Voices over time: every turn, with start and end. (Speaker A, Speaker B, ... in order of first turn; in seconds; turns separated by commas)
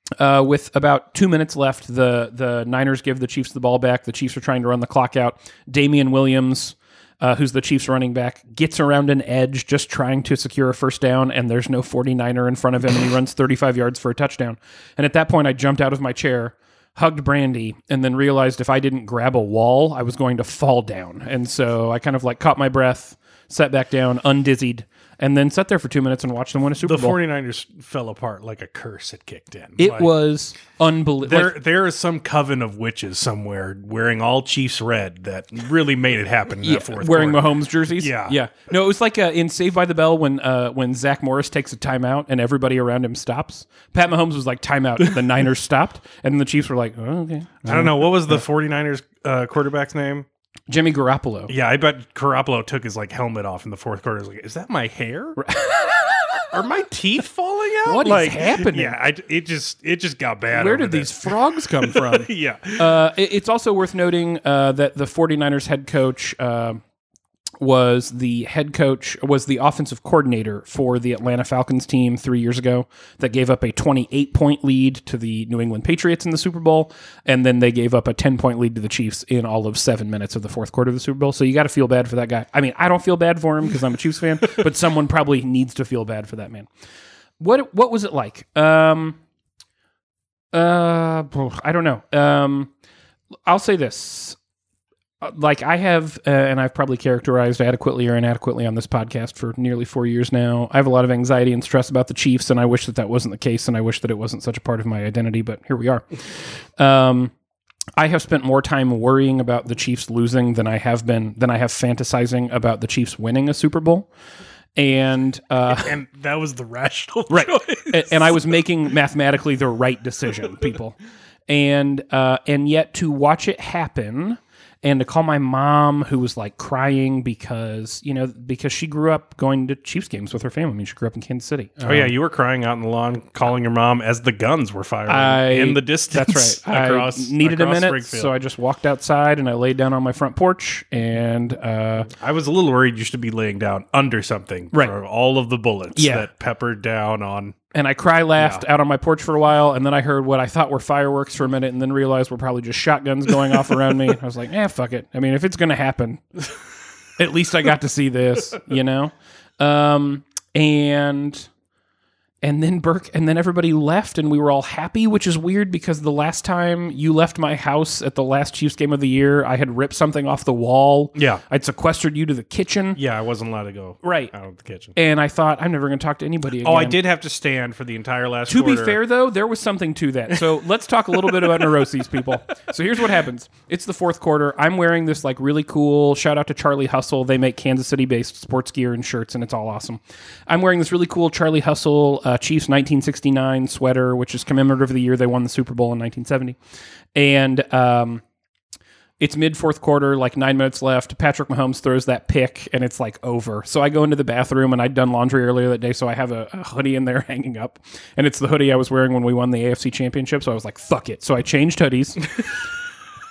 Speaker A: 0.2-27.2, Speaker B: 26.8-30.1, Speaker A: 29.8-31.6, Speaker B: 31.2-38.4, Speaker A: 36.6-48.4, Speaker B: 47.6-50.2, Speaker A: 50.7-51.5, Speaker B: 51.5-55.4, Speaker A: 55.4-56.4, Speaker B: 56.5-63.0, Speaker A: 57.8-59.0, Speaker A: 60.5-66.8, Speaker A: 67.6-86.7, Speaker A: 87.4-89.2, Speaker A: 90.5-92.7, Speaker A: 93.5-94.4, Speaker A: 95.2-107.3, Speaker A: 108.0-114.1, Speaker A: 114.8-116.0, Speaker B: 115.7-118.4, Speaker A: 117.3-121.0, Speaker A: 121.5-132.1, Speaker B: 131.8-138.3, Speaker A: 135.1-142.1, Speaker B: 142.2-147.6, Speaker A: 145.9-146.3, Speaker A: 147.7-156.4, Speaker B: 148.4-148.6, Speaker A: 157.2-161.5, Speaker A: 162.4-173.0, Speaker B: 171.1-171.4, Speaker B: 172.9-174.9, Speaker A: 174.0-174.3, Speaker A: 174.9-177.0, Speaker B: 176.6-179.0, Speaker A: 178.5-196.6, Speaker B: 181.2-181.7, Speaker A: 197.1-198.2, Speaker A: 199.2-212.3